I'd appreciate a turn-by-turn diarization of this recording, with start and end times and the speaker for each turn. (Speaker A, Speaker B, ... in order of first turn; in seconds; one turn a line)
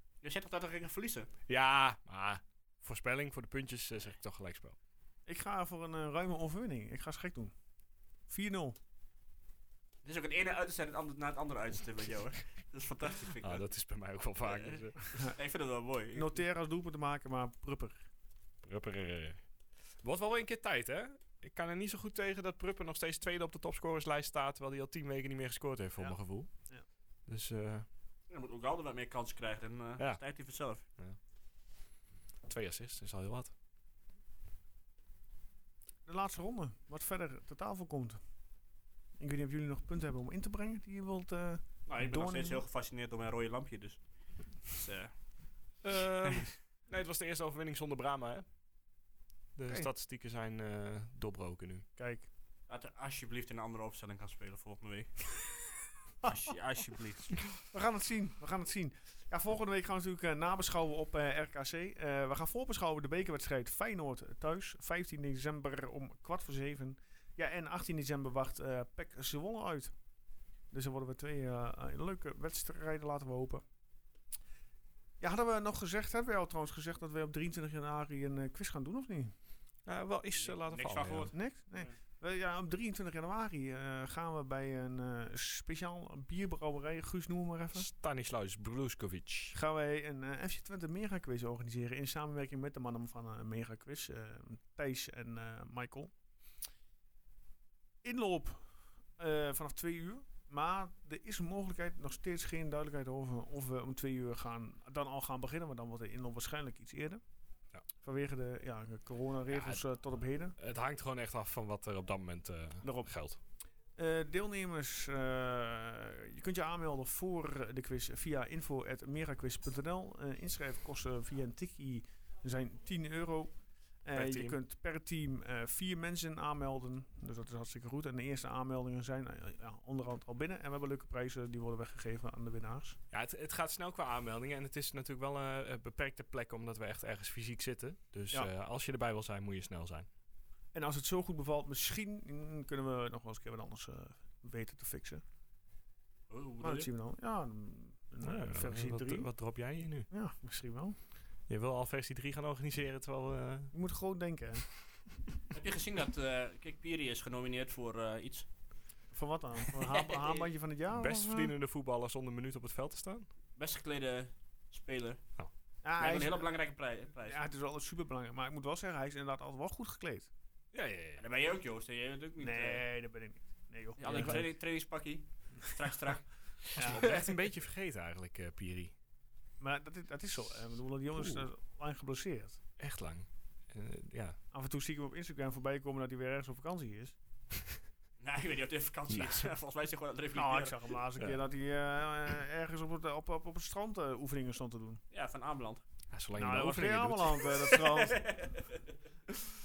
Speaker A: 0.2-1.3
Speaker B: 1.5-4.8
Speaker C: 5.2-7.5
Speaker C: 8.3-8.8
Speaker A: 10.0-13.7
Speaker B: 13.4-15.0
Speaker A: 14.4-16.3
Speaker C: 16.1-18.1
Speaker B: 18.6-19.4
Speaker B: 20.0-26.5
Speaker B: 27.3-27.9
Speaker A: 28.3-30.8
Speaker B: 32.5-33.5
Speaker C: 36.0-38.2
Speaker C: 39.2-42.6
Speaker A: 41.9-44.0
Speaker A: 44.6-45.1
Speaker B: 45.8-48.4
Speaker B: 49.5-51.8
Speaker C: 52.0-52.3
Speaker A: 52.7-55.4
Speaker A: 56.2-57.4
Speaker C: 57.7-69.9
Speaker C: 70.7-73.6
Speaker C: 75.2-79.3
Speaker B: 79.9-81.3
Speaker A: 80.3-81.9
Speaker C: 81.3-87.9
Speaker B: 87.7-89.5
Speaker C: 89.5-96.1
Speaker C: 98.0-98.6
Speaker C: 99.2-107.2
Speaker C: 108.0-110.5
Speaker B: 109.5-109.9
Speaker B: 110.6-113.4
Speaker C: 112.8-113.1
Speaker C: 114.0-123.5
Speaker C: 124.0-133.0
Speaker B: 124.1-124.6
Speaker B: 133.1-140.1
Speaker C: 140.7-145.2
Speaker A: 146.3-146.9
Speaker C: 146.6-149.3
Speaker B: 148.2-150.1
Speaker C: 150.1-150.9
Speaker B: 151.5-153.7
Speaker C: 153.7-154.6
Speaker A: 155.5-158.5
Speaker C: 159.1-161.5
Speaker A: 159.7-160.5
Speaker B: 160.9-163.3
Speaker A: 163.6-165.2
Speaker C: 165.8-166.4
Speaker A: 166.0-167.4
Speaker C: 167.2-170.3
Speaker B: 170.7-171.2
Speaker A: 171.2-172.8
Speaker C: 172.4-174.5
Speaker A: 174.0-177.2
Speaker B: 174.1-174.4
Speaker C: 176.7-177.1
Speaker B: 176.8-178.9
Speaker C: 179.6-182.6
Speaker B: 181.2-181.5
Speaker B: 182.8-184.4
Speaker C: 184.5-187.2
Speaker A: 188.2-191.0
Speaker B: 189.1-189.5
Speaker C: 190.3-195.0
Speaker A: 195.1-195.8
Speaker B: 196.1-197.5
Speaker C: 196.4-198.4
Speaker A: 197.7-198.9